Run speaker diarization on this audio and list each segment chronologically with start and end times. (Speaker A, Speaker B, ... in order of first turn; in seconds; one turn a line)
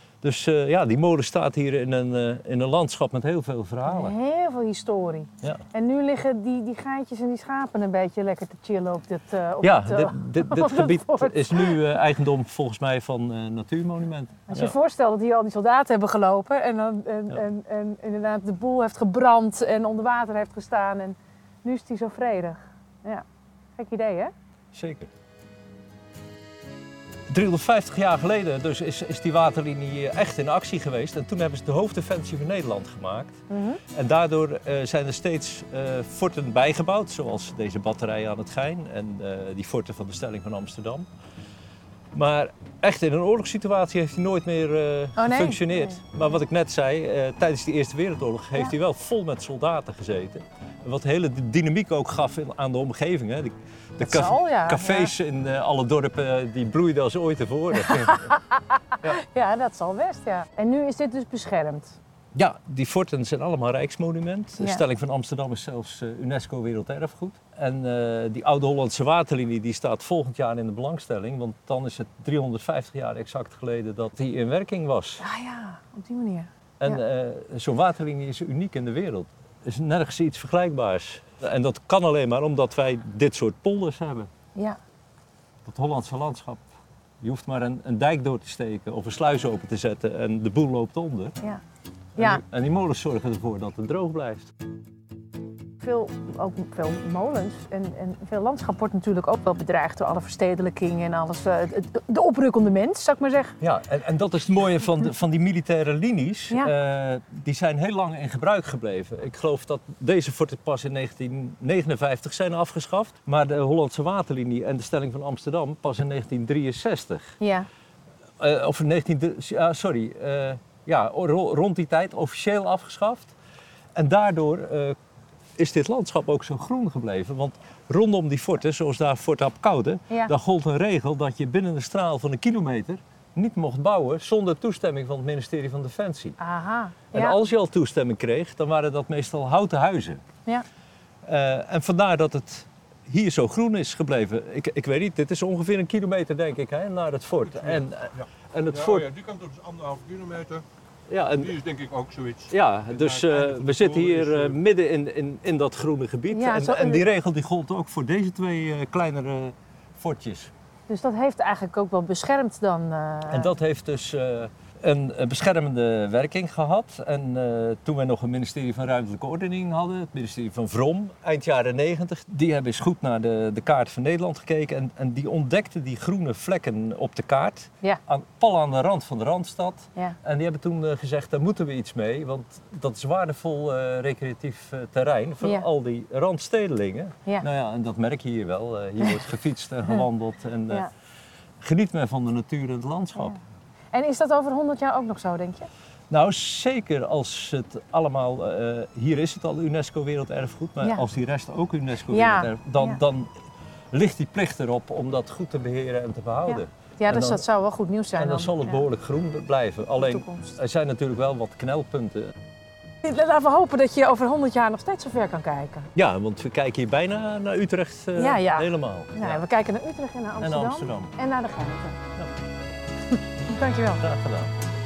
Speaker A: 0.2-4.1
Speaker B: 3.9-11.9
Speaker A: 9.6-14.7
Speaker B: 14.5-23.2
Speaker B: 23.8-24.3
Speaker A: 24.7-25.1
Speaker A: 27.3-33.4
Speaker B: 33.5-33.8
Speaker A: 33.9-41.1
Speaker A: 42.1-58.3
Speaker B: 45.2-46.0
Speaker B: 54.0-55.1
Speaker B: 57.8-58.3
Speaker B: 59.0-62.0
Speaker A: 62.3-75.2
Speaker B: 64.6-64.8
Speaker B: 75.2-77.0
Speaker A: 76.8-84.3
Speaker A: 85.6-86.6
Speaker A: 87.2-91.3
Speaker A: 92.2-94.5
Speaker B: 95.8-103.6
Speaker A: 103.6-117.3
Speaker B: 117.4-117.7
Speaker A: 118.4-123.3
Speaker A: 123.9-125.0
Speaker A: 125.6-136.4
Speaker B: 136.4-137.4
Speaker A: 137.1-140.2
Speaker A: 141.2-149.1
Speaker C: 148.7-150.6
Speaker A: 151.1-151.6
Speaker C: 151.5-154.5
Speaker A: 152.5-160.5
Speaker B: 156.3-157.0
Speaker B: 160.9-163.5
Speaker A: 163.3-190.9
Speaker B: 185.4-185.7
Speaker A: 191.6-193.4
Speaker B: 193.9-195.7
Speaker A: 196.1-203.3
Speaker B: 202.1-203.0
Speaker A: 203.9-207.4
Speaker B: 206.4-208.8
Speaker A: 208.2-212.3
Speaker B: 210.0-210.6
Speaker B: 213.0-215.9
Speaker A: 215.9-219.4
Speaker B: 218.1-222.0
Speaker A: 220.4-221.1
Speaker B: 223.4-224.0
Speaker A: 224.0-224.5